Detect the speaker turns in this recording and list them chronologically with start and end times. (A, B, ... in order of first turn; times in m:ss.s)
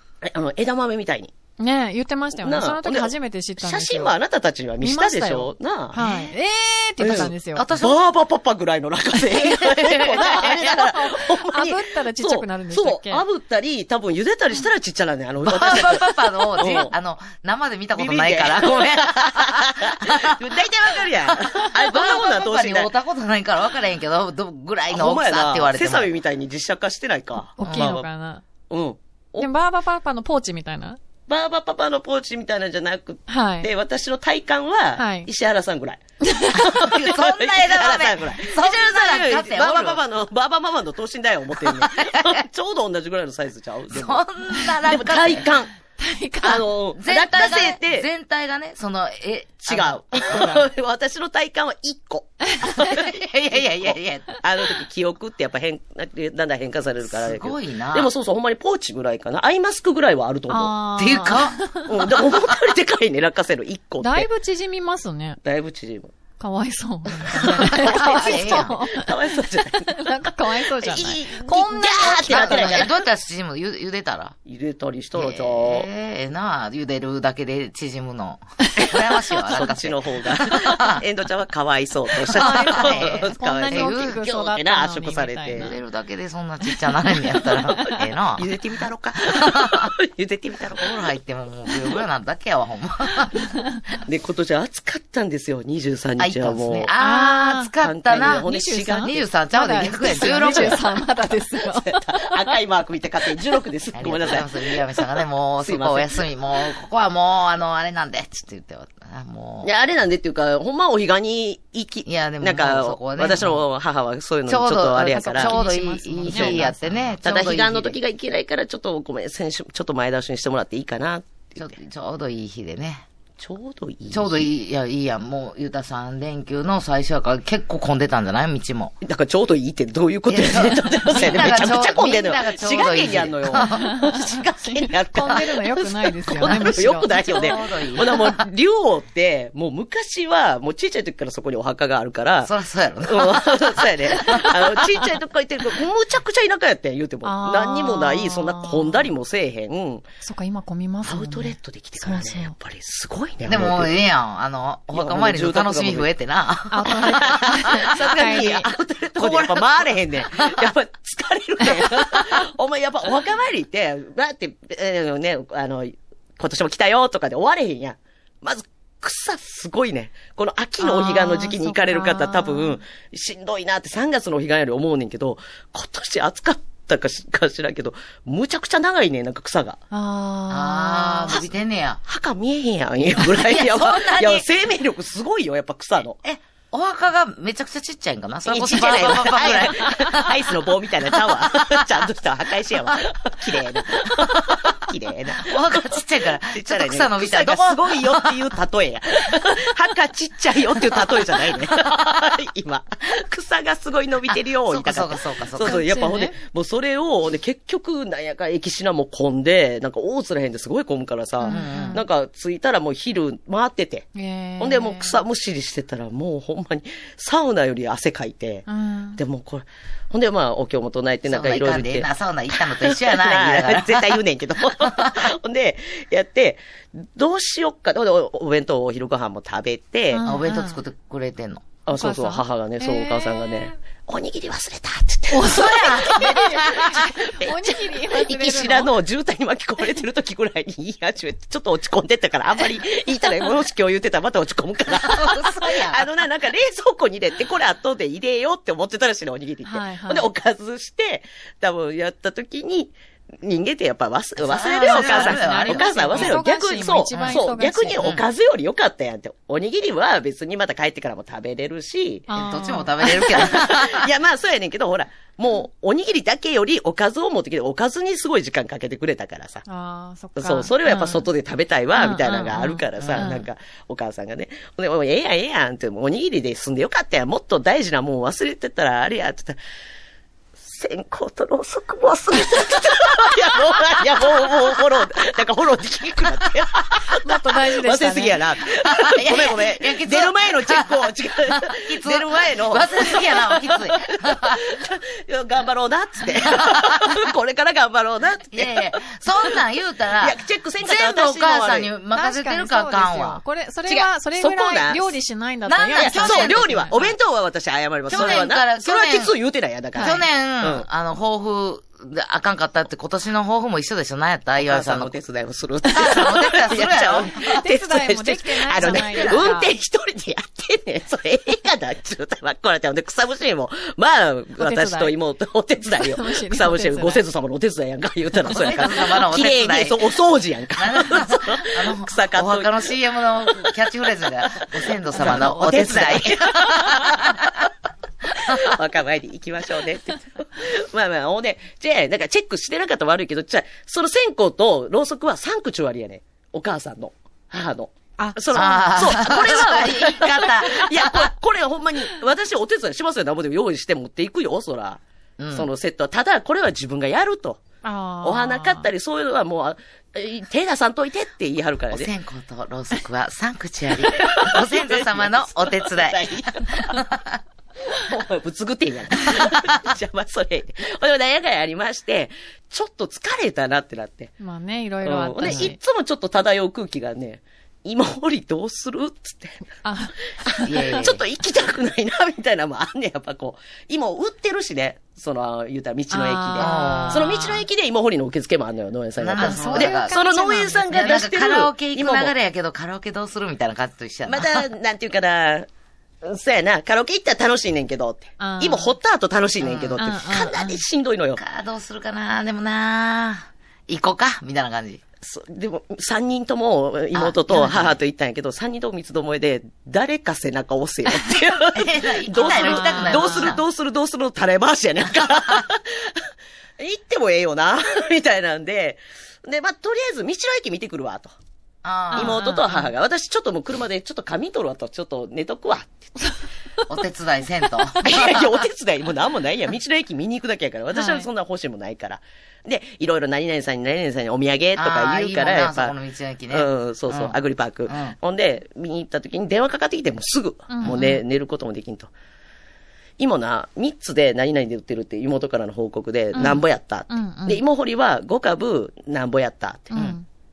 0:00.2-0:01.3 A
0:01.6-0:04.1 B
0:02.3-0:06.0 A
0:04.8-0:07.7 B
0:06.0-0:06.3 C
0:07.0-0:16.9 A
0:07.1-0:08.0 C
0:09.3-0:10.9 C
0:10.7-0:13.2 B
0:15.4-0:26.1 C
0:18.0-0:22.9 A
0:24.9-0:28.1 A
0:27.6-0:28.4 B
0:27.6-0:28.0 C
0:28.7-0:29.5 A
0:29.4-0:31.0 B
0:31.3-0:36.0 A
0:33.3-0:33.7 B
0:35.0-0:35.3 B
0:36.5-0:40.0 C
0:36.5-0:45.7 A
0:41.6-0:42.4 C
0:43.9-0:45.5 C
0:46.0-0:46.6 B
0:46.4-0:48.1 A
0:46.4-0:50.7 C
0:49.7-1:00.8 A
0:52.7-0:54.4 C
0:57.0-0:58.1 C
1:00.5-1:01.9 B
1:01.0-1:01.6 C
1:01.8-1:04.3 A
1:04.0-1:05.4 B
1:05.4-1:06.1 A
1:06.4-1:09.2 B
1:07.3-1:12.9 A
1:07.6-1:08.9 C
1:09.9-1:12.8 B
1:12.3-1:14.4 C
1:14.5-1:15.9 A
1:15.2-1:21.0 C
1:19.4-1:25.8 A
1:22.3-1:24.2 C
1:22.4-1:25.7 B
1:25.6-1:28.6 C
1:28.4-1:31.0 A
1:29.2-1:29.9 C
1:30.8-1:33.5 C
1:34.0-1:36.9 A
1:36.2-1:38.5 C
1:37.0-1:37.7 B
1:37.8-1:39.2 A
1:38.4-1:42.3 B
1:39.0-1:40.8 C
1:40.1-1:45.1 A
1:44.0-1:49.7 C
1:45.6-1:46.2 A
1:49.6-1:55.7 A
1:52.1-1:53.6 C
1:54.5-1:58.0 C
1:55.4-1:56.9 B
1:56.3-1:56.7 A
1:57.2-2:01.8 A
2:01.6-2:03.0 C
2:03.4-2:04.5 A
2:04.1-2:09.0 C
2:09.0-2:30.0 A
2:10.3-2:13.9 C
2:13.8-2:17.3 B
2:16.7-2:18.4 C
2:22.4-2:24.6 C
2:27.2-2:29.0 B
2:30.2-2:32.5 B
2:31.0-2:34.0 A
2:33.5-2:38.4 C
2:34.9-2:36.1 A
2:36.7-2:38.7 B
2:36.8-2:59.8 A
2:39.2-2:40.6 C
2:50.8-2:52.7 B
2:59.9-3:01.4 B
3:00.5-3:02.0 C
3:02.1-3:06.2 A
3:03.1-3:04.4 C
3:06.2-3:10.5 C
3:08.4-3:50.2 A
3:11.1-3:11.8 C
3:15.4-3:18.4 C
3:24.7-3:25.8 C
3:25.6-3:26.3 B
3:31.4-3:32.0 B
3:31.4-3:32.0 C
3:34.2-3:35.2 B
3:38.7-3:39.2 B
3:41.3-3:44.2 C
3:44.8-3:45.3 C
3:50.1-3:50.8 B
3:50.2-3:51.8 C
3:51.9-4:22.3 A
3:51.9-3:53.7 B
3:55.3-3:58.9 B
3:55.6-3:57.0 C
4:04.9-4:06.1 C
4:09.6-4:10.3 B
4:14.5-4:16.4 C
4:14.6-4:18.0 B
4:17.1-4:18.2 C
4:22.3-4:24.1 C
4:22.3-4:23.3 B
4:23.0-4:29.6 A
4:29.7-4:31.2 B
4:30.4-4:39.6 A
4:32.0-4:33.4 B
4:33.0-4:33.3 C
4:40.6-4:59.6 A
4:47.2-4:48.4 B
4:48.8-4:54.6 C
4:56.4-4:57.2 C
4:58.5-5:03.4 C
5:00.2-5:01.9 A
5:02.1-5:07.0 B
5:03.9-5:05.2 A
5:05.7-5:07.1 C
5:05.9-5:10.9 A
5:08.1-5:09.3 C
5:10.0-5:15.1 C
5:14.6-5:32.9 A
5:15.9-5:17.6 C
5:17.6-5:19.7 B
5:18.8-5:19.5 C
5:24.6-5:25.2 B
5:26.0-5:27.2 B
5:28.5-5:30.1 C
5:30.8-5:37.4 C
5:34.6-5:37.5 A
5:38.3-5:55.0 A
5:38.4-5:38.7 C
5:48.5-5:51.3 C
5:55.4-5:55.7 C
5:55.5-5:57.6 A
5:57.8-5:58.9 B
5:58.2-6:02.1 A
6:01.9-6:07.4 C
6:04.1-6:07.0 A
6:07.9-6:14.3 A
6:14.4-6:15.8 B
6:15.0-6:19.6 A
6:15.4-6:15.7 C
6:19.8-6:20.7 B
6:20.4-6:32.3 A
6:20.6-6:21.2 C
6:26.1-6:27.6 B
6:26.6-6:27.5 C
6:29.2-6:34.7 C
6:29.4-6:30.9 B
6:34.3-6:35.7 A
6:36.2-6:41.4 A
6:38.4-6:38.9 B
6:39.6-6:40.0 C
6:40.0-6:40.8 B
6:41.4-6:45.0 C
6:45.2-6:56.2 A
6:47.1-6:48.0 C
6:51.6-6:53.6 C
6:52.5-6:53.5 B
6:55.2-6:55.6 C
6:56.8-7:01.3 A
7:01.8-7:02.5 C
7:02.1-7:06.2 A
7:02.1-7:02.9 B
7:06.9-7:08.5 C
7:08.0-7:16.0 A
7:11.0-7:11.3 B
7:14.8-7:18.2 C
7:16.5-7:22.1 A
7:20.7-7:21.2 B
7:23.2-7:30.0 A
7:26.4-7:27.6 B
7:29.9-7:30.2 B
7:29.9-7:30.2 C